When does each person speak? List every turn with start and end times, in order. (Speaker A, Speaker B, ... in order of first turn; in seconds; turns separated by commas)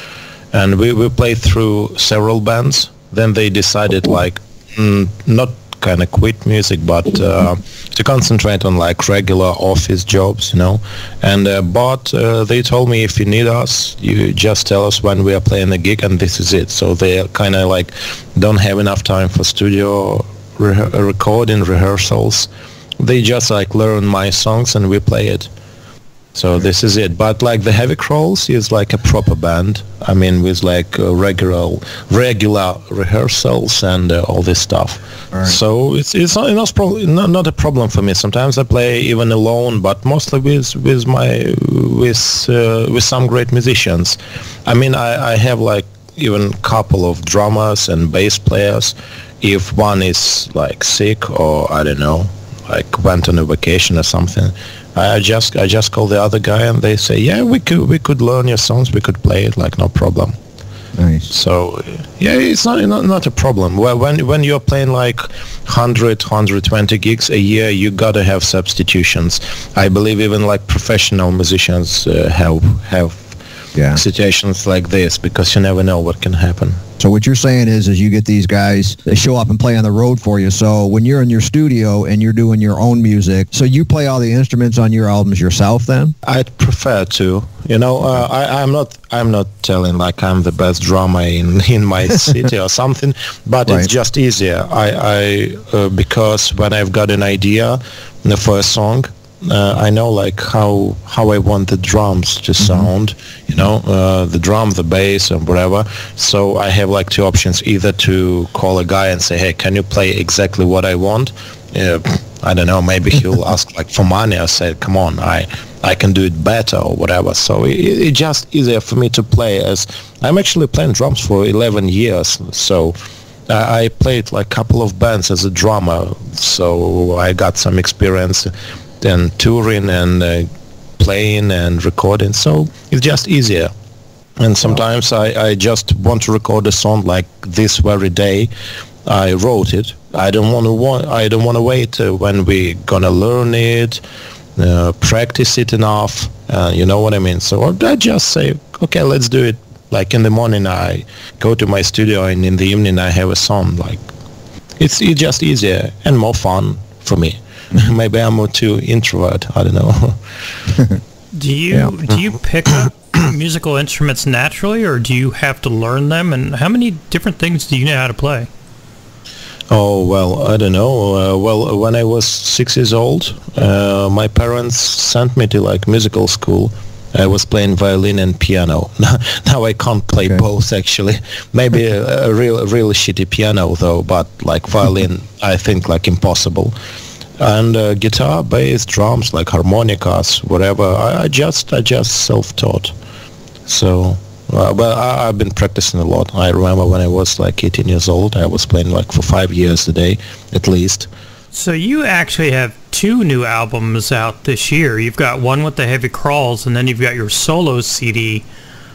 Speaker A: 0.5-22.5, Speaker A: 23.0-25.5, Speaker A: 26.3-60.3, Speaker B: 35.3-35.6, Speaker B: 61.0-61.3, Speaker A: 61.3-73.3, Speaker B: 73.8-74.0, Speaker A: 73.9-76.8, Speaker B: 77.0-86.1, Speaker A: 86.2-123.0, Speaker B: 102.6-102.9, Speaker A: 123.5-133.7, Speaker A: 134.4-138.5, Speaker A: 139.0-144.0, Speaker A: 144.6-154.0, Speaker A: 154.8-160.8, Speaker C: 161.3-168.5, Speaker A: 169.7-186.7, Speaker A: 187.4-192.9, Speaker A: 193.7-201.1, Speaker C: 201.5-208.4